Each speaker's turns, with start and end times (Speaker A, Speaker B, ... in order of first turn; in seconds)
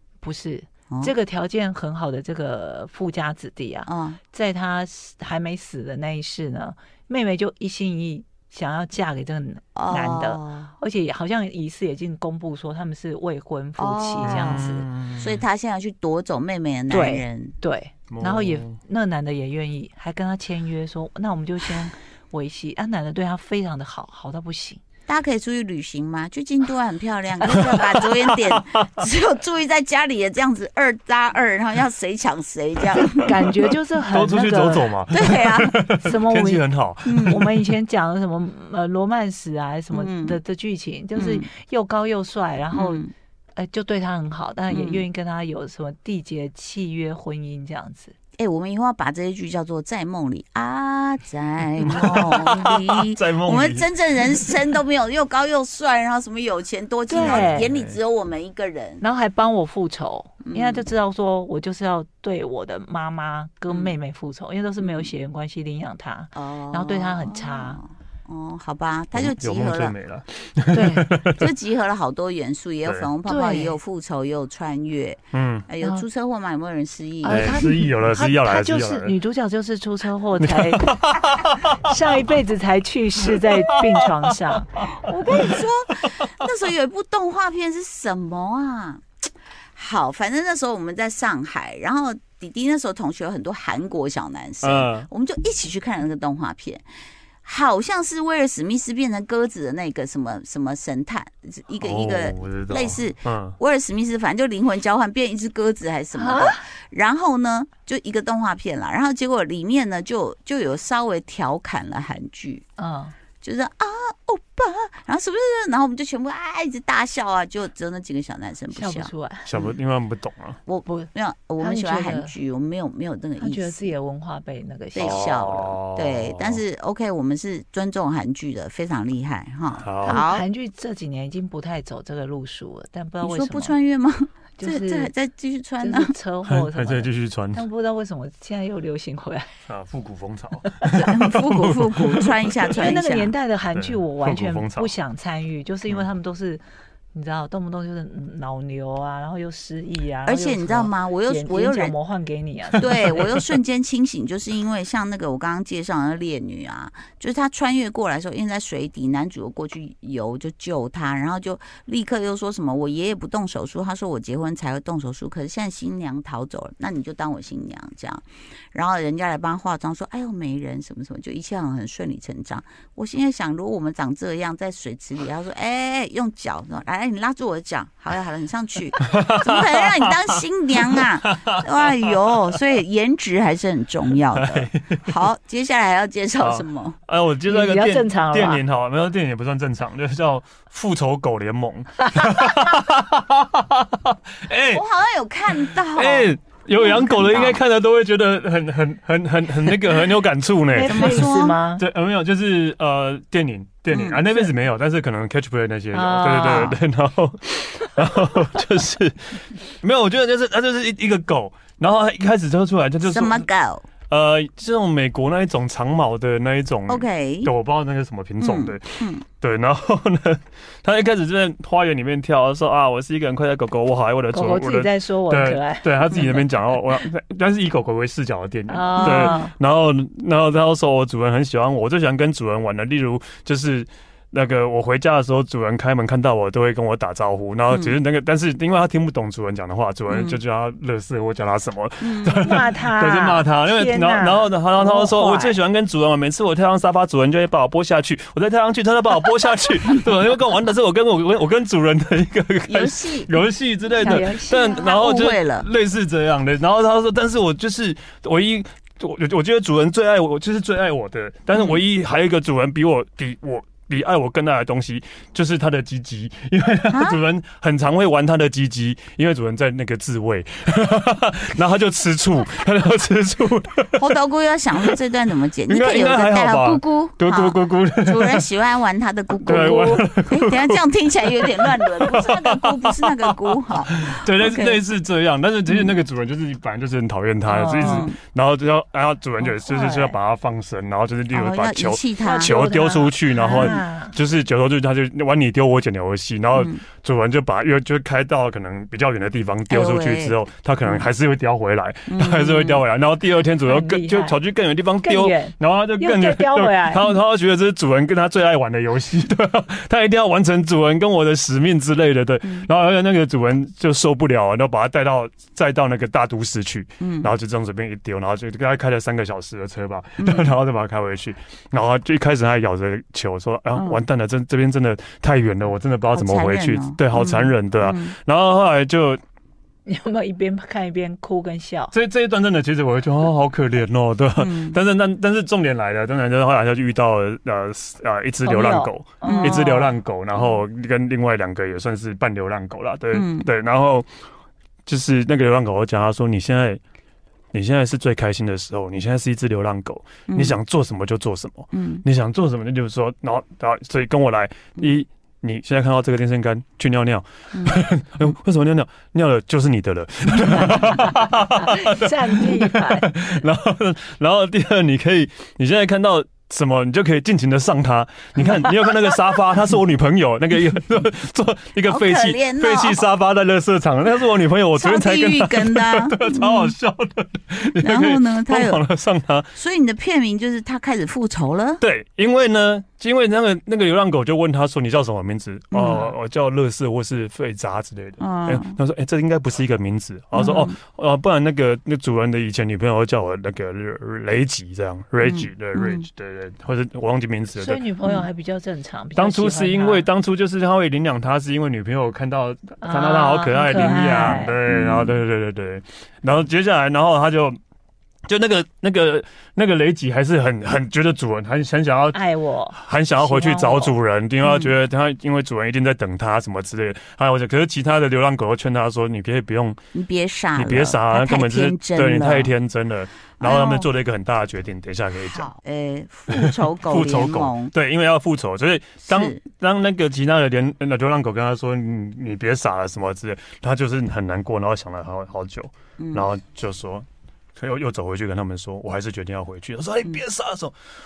Speaker A: 0.2-14.7, 16.9-24.8, 33.1-35.0, 35.9-36.7, 37.2-43.0, 43.6-48.1, 57.1-57.7, 59.0-67.8, 70.7-71.2, 73.3-73.8, 77.2-80.9, 81.8-84.8, 106.1-106.6, 112.8-113.2, 118.7-119.5, 120.9-122.3, 123.4-125.4, 130.0-133.8, 134.6-135.1, 135.8-139.6, 140.7-141.1, 142.8-146.6, 147.1-153.2, 187.5-188.6, 192.2-192.7, 200.7-201.8, 205.9-206.7, 224.3-226.5, 228.7-229.5, 242.4-245.6, 253.9-254.9, 279.5-280.1, 287.5-288.1, 289.4-290.1, 292.2-294.2, 303.6-304.4, 305.0-307.1, 329.9-331.9, 338.4-339.9, 360.5-363.1, 397.6-400.1, 402.8-404.6, 412.1-413.9
Speaker B: 3.9-4.2, 9.8-10.8, 13.8-17.6, 25.1-33.3, 35.1-35.8, 37.0-37.4, 39.9-40.4, 41.1-41.5, 42.7-43.1, 44.7-45.0, 48.4-59.0, 60.4-60.9, 64.8-65.1, 66.3-70.0, 71.2-77.7, 84.9-89.0, 89.8-96.8, 97.5-112.6, 113.4-119.8, 120.7-123.9, 124.9-130.4, 133.2-136.1, 140.9-143.3, 150.2-151.9, 152.8-187.0, 194.7-197.6, 200.8-201.6, 203.9-204.2, 206.3-206.8, 213.0-213.9, 216.9-217.5, 218.4-219.2, 237.7-238.0, 240.1-240.4, 242.0-242.4, 244.9-245.3, 252.7-253.3, 254.7-255.7, 261.5-261.8, 266.9-267.2, 274.0-284.8, 285.7-285.9, 287.8-288.2, 291.3-293.8, 296.6-296.9, 299.7-301.1, 302.1-302.8, 312.4-312.7, 317.0-317.3, 320.2-320.5, 323.7-324.0, 326.1-328.2, 334.4-334.8, 339.2-339.6, 343.1-343.5, 350.3-350.6, 351.7-352.1, 357.5-357.8, 368.4-368.7, 371.8-373.1, 374.7-376.7, 377.8-378.8, 379.5-381.8, 385.7-386.1, 388.2-388.8, 390.3-390.8, 395.2-396.1, 404.3-405.2, 414.4-414.7, 419.9-422.5, 423.4-423.9, 425.3-427.7, 429.0-429.4, 436.0-436.3
Speaker C: 14.2-15.4, 18.1-18.8, 27.7-28.4, 33.5-37.7, 51.8-54.5, 57.1-58.0, 69.2-71.4, 75.3-75.7, 77.3-79.1, 80.4-81.9, 83.5-84.1, 85.3-85.6, 94.6-95.1, 101.8-103.6, 119.5-120.6, 125.0-126.6, 129.8-130.2, 136.4-137.7, 139.7-142.9, 143.7-144.9, 179.0-182.1, 184.4-185.2, 186.4-194.9, 195.8-213.5, 214.1-274.1, 275.7-278.5, 279.4-280.8, 281.4-329.2, 331.9-344.1, 344.9-346.8, 347.5-379.5, 381.8-397.8, 399.1-407.6, 408.3-412.2, 412.7-419.8, 420.6-425.5, 426.3-437.1, 437.6-440.8